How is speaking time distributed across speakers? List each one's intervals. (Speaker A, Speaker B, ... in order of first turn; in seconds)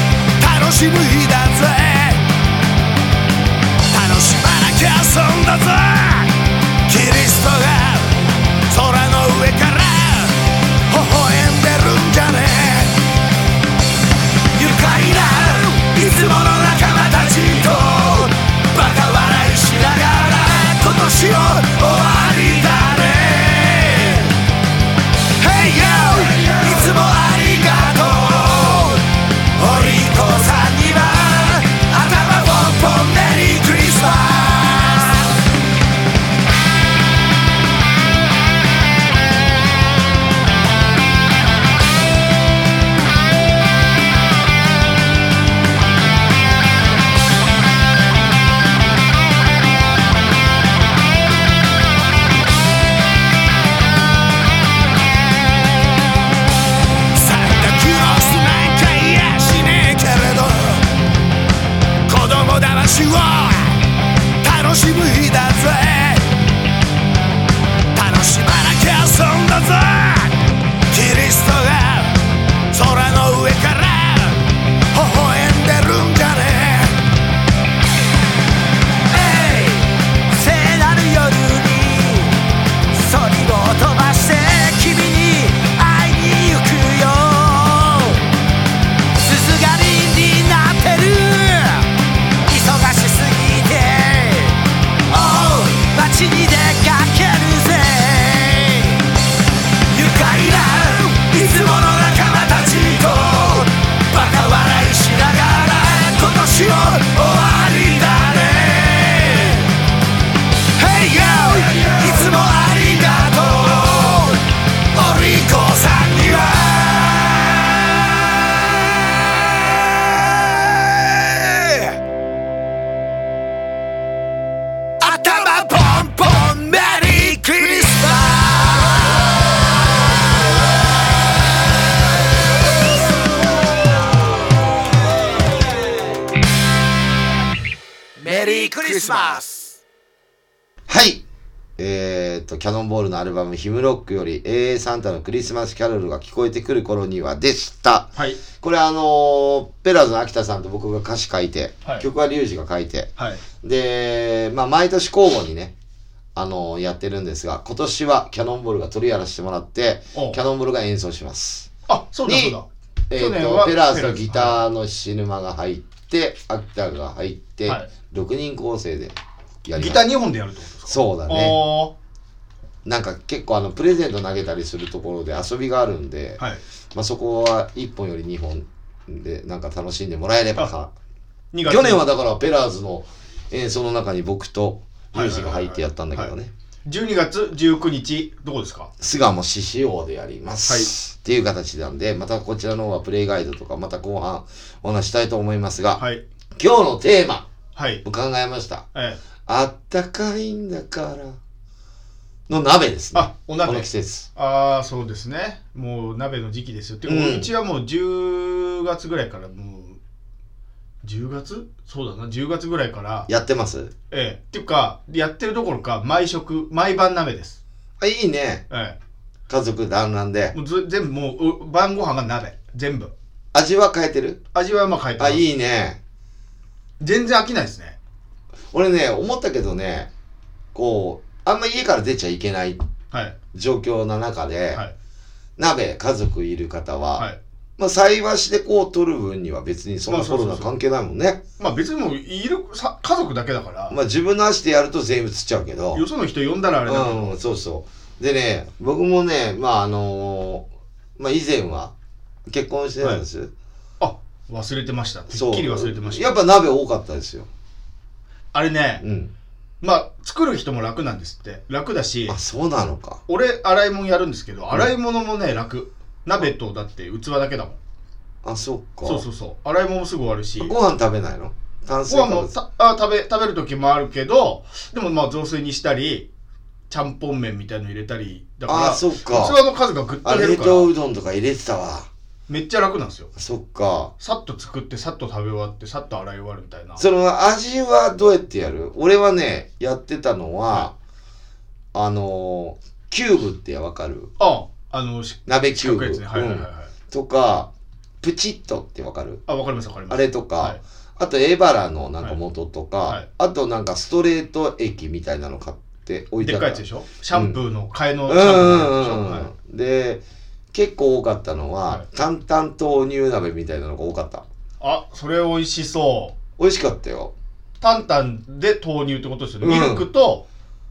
Speaker A: 0.4-2.2, 3.9-13.0, 14.5-24.4, 25.4-35.3, 57.1-60.9, 62.1-63.8, 64.4-66.3, 67.9-72.2, 72.7-77.0, 79.1-88.3, 89.2-91.9, 92.4-99.1, 99.9-109.7, 110.8-117.9, 119.7-122.0, 125.0-129.4, 138.2-139.8
Speaker B: 140.9-141.2, 141.8-153.1, 153.6-155.7, 156.3-161.7, 162.2-162.6, 163.1-170.1, 170.9-171.6, 172.8-176.4, 176.9-180.9, 181.6-186.5, 189.0-196.0, 196.6-197.5, 198.0-198.8, 199.4-201.4, 202.5-204.3, 207.0-207.5, 213.3-213.9, 218.0-218.6, 219.5-220.5, 223.5-224.4, 225.2-226.0, 228.7-230.1, 230.7-232.8, 233.5-234.8, 235.6-237.3, 237.8-241.4, 243.9-246.0, 246.8-250.7, 251.2-251.9, 252.5-253.5, 255.3-257.5, 259.0-259.3, 262.3-263.2, 268.4-269.2, 270.6-272.5, 278.7-279.6, 280.2-282.1, 283.4-284.1, 287.0-290.9, 291.9-294.3, 295.4-297.7, 298.2-299.4, 300.1-307.6, 308.3-314.4, 316.6-317.3, 319.6-320.1
Speaker C: 148.2-148.4, 153.2-153.4, 160.1-160.4, 161.9-164.6, 169.8-171.9, 181.5-182.0, 185.1-186.3, 186.8-188.9, 190.7-190.9, 196.0-196.2, 197.7-198.0, 198.9-199.2, 203.1-210.0, 211.0-213.3, 214.1-217.6, 218.7-219.0, 220.5-223.1, 224.5-225.4, 227.0-228.0, 233.1-233.4, 240.1-240.7, 241.6-244.0, 245.9-247.4, 254.0-256.4, 258.5-259.0, 259.8-262.4, 263.3-267.8, 269.0-270.7, 272.1-276.3, 276.9-280.9, 282.5-283.3, 284.2-287.0, 294.4-296.9, 299.5-300.8, 306.4-309.5, 314.8-316.4, 317.8-320.4